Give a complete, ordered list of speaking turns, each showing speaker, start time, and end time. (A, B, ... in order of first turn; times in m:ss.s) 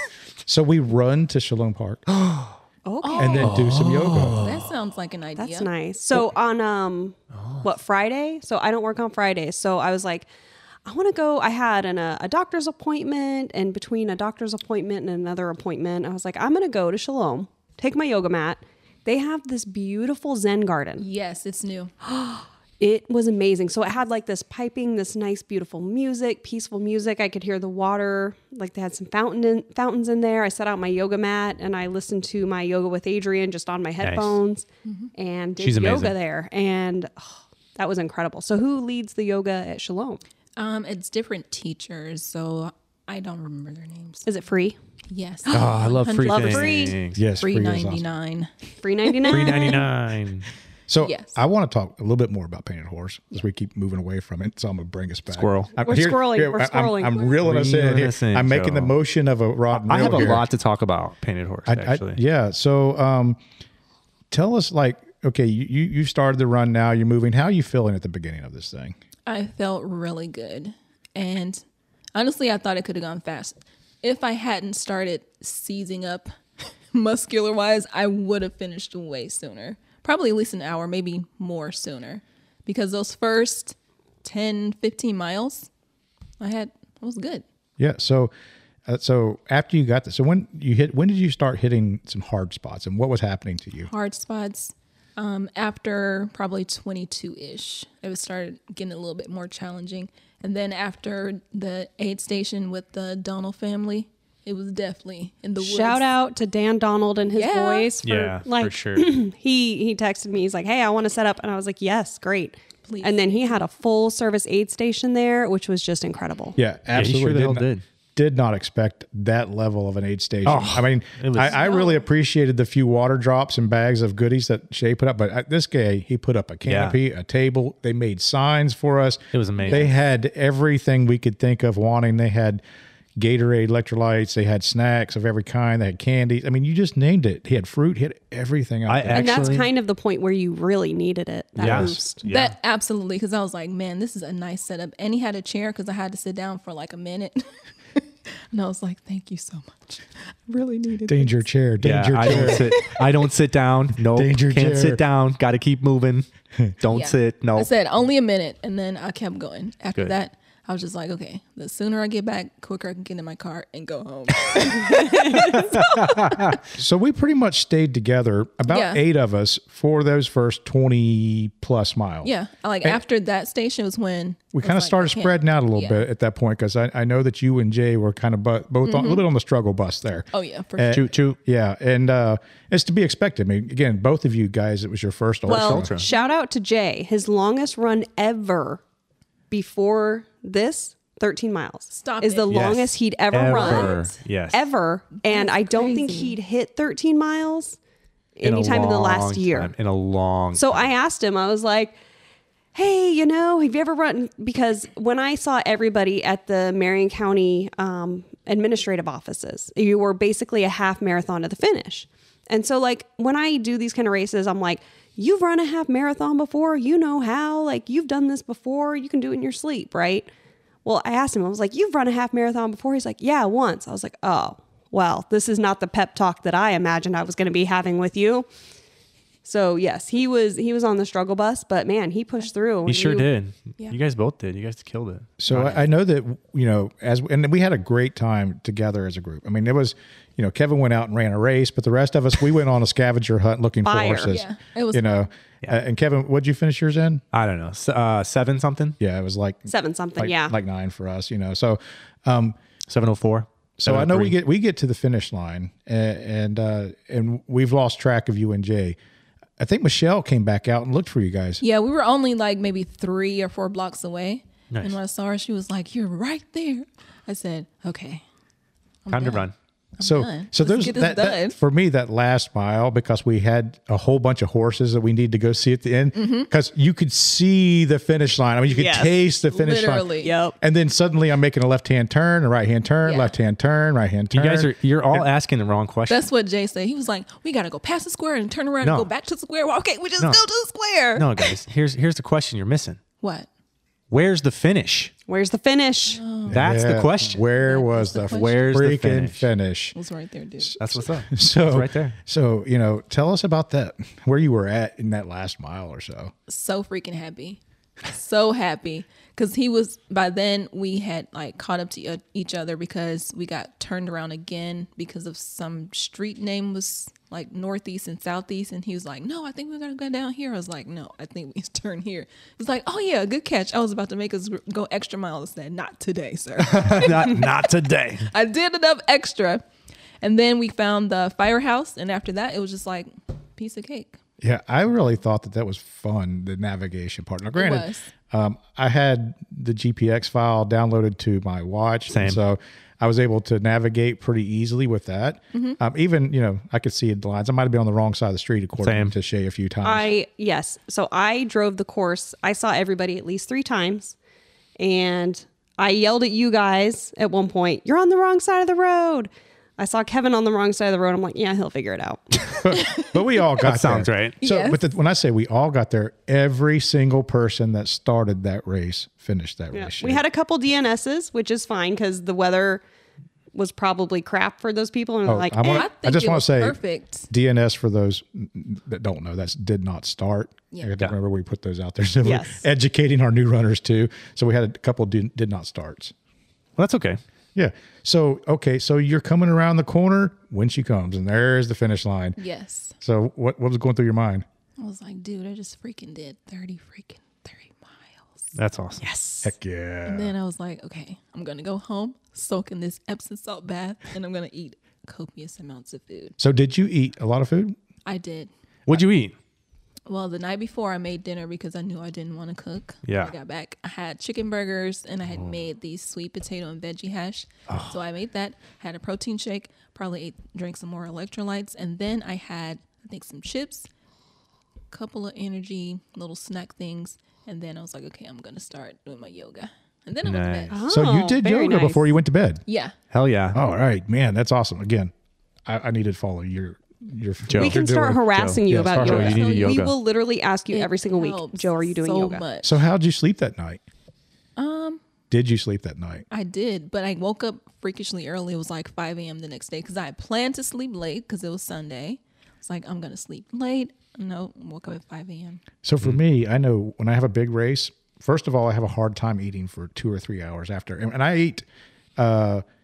0:00.5-0:02.0 A
0:02.1-0:02.6 B
0:02.8-0:03.6 C
0:03.0-0:03.5 D
0:03.2-0:04.4 A
0:03.4-0:04.7 B
0:04.4-0:05.7 D
0:05.4-0:10.3 C
0:07.4-0:07.6 B
0:10.8-0:21.0 C
0:21.0-0:21.9 D
0:22.0-0:40.2 C
0:34.0-0:34.4 B
0:34.8-0:35.1 D
0:35.6-0:36.2 B
0:40.6-0:44.3 D
0:44.3-0:44.8 C
0:45.1-0:48.5 D
0:45.5-0:47.2 B
0:46.2-0:47.0 C
0:47.1-0:48.0 A
0:48.8-0:49.8 C
0:49.1-0:49.8 D
0:49.3-0:50.5 B
0:50.9-1:00.5 A
0:51.0-0:51.4 D
0:55.3-0:55.7 B
0:55.8-0:57.3 C
0:57.4-0:58.9 B
0:59.7-1:02.2 B
1:01.7-1:03.4 A
1:04.3-1:09.0 A
1:09.3-1:11.6 D
1:12.2-1:16.3 D
1:16.9-1:25.7 D
1:26.4-1:27.4 D
1:27.8-1:28.3 A
1:28.9-1:33.9 A
1:33.9-1:46.0 D
1:45.6-1:56.6 C
1:47.3-1:47.9 D
1:48.0-1:49.1 B
1:52.9-1:53.6 D
1:56.6-2:12.6 A
1:57.0-1:57.8 B
2:00.4-2:01.6 B
2:01.4-2:02.0 D
2:06.7-2:07.0 B
2:09.3-2:09.9 B
2:13.2-2:19.6 A
2:18.9-2:19.7 B
2:19.1-2:22.2 C
2:21.6-2:22.5 B
2:21.6-2:22.0 A
2:22.3-2:31.5 D
2:31.1-2:32.8 A
2:31.8-2:36.3 B
2:32.4-2:33.0 D
2:34.1-2:35.0 A
2:36.8-2:37.7 B
2:36.9-2:46.4 D
2:45.5-2:46.6 B
2:46.7-2:52.3 A
2:48.7-2:49.0 D
2:52.2-2:56.0 D
2:54.5-3:05.9 A
2:58.8-2:59.2 D
3:00.3-3:01.1 D
3:00.9-3:01.4 B
3:05.5-3:06.1 B
3:05.5-3:08.8 C
3:06.1-3:06.3 D
3:09.5-3:17.8 C
3:11.9-3:12.6 D
3:12.5-3:14.7 B
3:13.5-3:14.2 D
3:15.2-3:16.4 D
3:18.4-3:19.7 C
3:18.4-3:20.9 B
3:20.6-3:22.0 C
3:22.7-3:40.3 C
3:40.8-3:48.5 C
3:49.4-3:53.3 C
3:52.9-3:55.9 B
3:55.4-4:07.2 A
4:03.8-4:04.4 C
4:04.3-4:05.2 D
4:07.3-4:09.0 B
4:09.0-4:12.6 A
4:09.7-4:10.6 C
4:12.9-4:14.4 B
4:13.8-4:19.0 A
4:19.6-4:21.6 A
4:21.6-4:28.2 D
4:24.7-4:25.0 B
4:29.1-4:29.5 D
4:29.1-4:29.5 B
4:30.0-4:31.6 D
4:30.0-4:45.3 A
4:36.2-4:36.5 D
4:38.7-4:39.1 C
4:39.5-4:40.3 D
4:40.2-4:40.6 C
4:43.0-4:43.3 D
4:44.3-4:46.3 B
4:46.1-4:51.5 D
4:48.8-4:49.1 B
4:51.2-4:53.0 B
4:53.2-4:53.5 D
4:54.1-4:55.1 B
4:55.3-4:56.2 C
4:56.1-4:56.6 D
4:56.5-5:00.0 A
4:56.5-4:57.4 B
4:57.5-4:58.6 D
4:58.2-4:59.5 B
5:00.0-5:00.8 D
5:00.6-5:06.3 A
5:00.8-5:02.2 B
5:06.5-5:27.6 D
5:26.6-5:28.3 B
5:28.3-5:29.6 D
5:30.2-5:34.2 D
5:34.4-5:50.1 A
5:37.6-5:38.1 D
5:42.1-5:42.4 B
5:45.5-5:45.8 D
5:48.8-5:49.1 B
5:49.8-5:54.2 C
5:54.8-6:02.6 C
6:02.6-6:10.2 A
6:02.7-6:03.2 D
6:03.6-6:04.4 B
6:04.4-6:04.8 D
6:09.7-6:12.8 C
6:13.5-6:15.9 C
6:15.2-6:26.1 A
6:15.6-6:17.3 D
6:22.2-6:22.6 C
6:26.8-6:27.2 B
6:27.6-6:32.4 A
6:32.4-6:33.0 D
6:33.0-6:34.4 A
6:34.8-6:38.5 D
6:38.6-6:39.1 B
6:39.0-6:39.5 C
6:39.4-6:40.4 A
6:40.1-6:46.4 D
6:46.4-6:47.8 A
6:48.0-6:48.5 D
6:48.9-6:49.4 B
6:50.1-7:03.9 D
6:53.1-6:53.3 B
6:57.7-6:58.0 B
7:04.9-7:10.8 D
7:10.2-7:10.8 B
7:10.7-7:12.1 C
7:10.9-7:12.6 A
7:12.7-7:13.0 D
7:13.1-7:13.6 B
7:13.5-7:15.1 A
7:15.7-7:19.4 A
7:17.5-7:19.9 B
7:17.6-7:22.4 C
7:19.0-7:19.9 D
7:20.7-7:22.8 D
7:22.6-7:23.8 A
7:24.6-7:25.0 D
7:25.3-7:26.3 A
7:26.3-7:35.6 D
7:35.8-7:41.6 A
7:42.2-7:42.6 A